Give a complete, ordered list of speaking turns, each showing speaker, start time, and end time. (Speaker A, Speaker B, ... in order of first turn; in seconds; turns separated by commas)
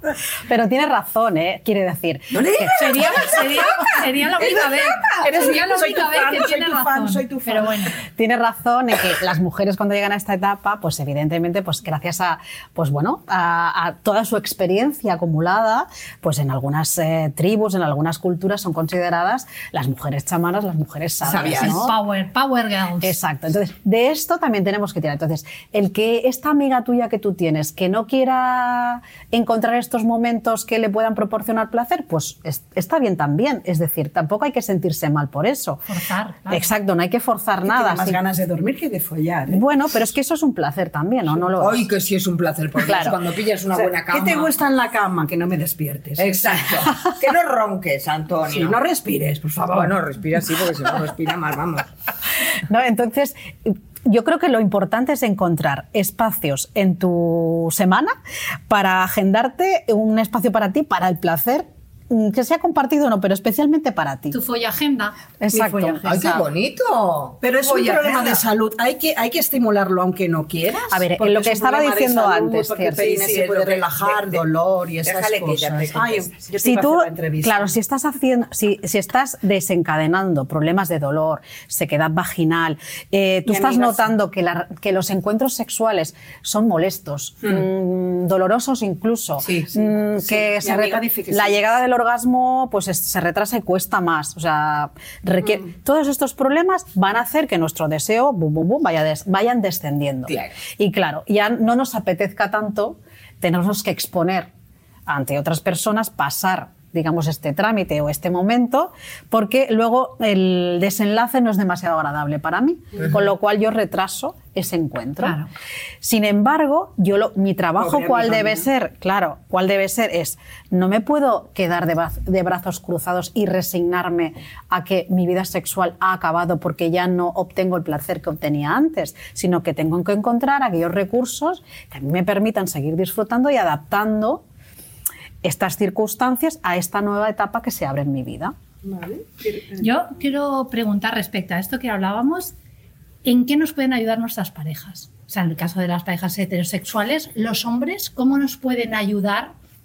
Speaker A: 0.3-3.1, Speaker B: 2.3-3.4, Speaker C: 2.7-8.0, Speaker D: 5.1-7.8, Speaker A: 8.1-21.9, Speaker B: 21.2-21.8, Speaker C: 21.4-23.2, Speaker A: 23.0-35.8, Speaker C: 35.9-36.7, Speaker A: 36.5-38.2, Speaker D: 37.7-39.6, Speaker A: 39.5-41.9, Speaker B: 41.6-44.5, Speaker A: 42.8-43.2, Speaker D: 43.7-46.8, Speaker B: 46.2-48.8, Speaker D: 48.5-50.0, Speaker B: 49.7-51.9, Speaker A: 52.6-58.1, Speaker A: 58.7-64.4, Speaker C: 64.3-66.1, Speaker A: 65.4-66.4, Speaker B: 66.0-68.5, Speaker D: 67.4-77.7, Speaker A: 70.9-73.0, Speaker B: 73.0-74.4, Speaker B: 75.0-76.3, Speaker A: 76.6-104.5, Speaker D: 83.5-84.1, Speaker D: 90.2-91.6, Speaker A: 105.1-115.4, Speaker C: 115.2-115.5, Speaker A: 116.0-134.4, Speaker A: 135.4-138.5, Speaker D: 138.8-139.9, Speaker C: 139.8-142.5, Speaker C: 143.2-149.5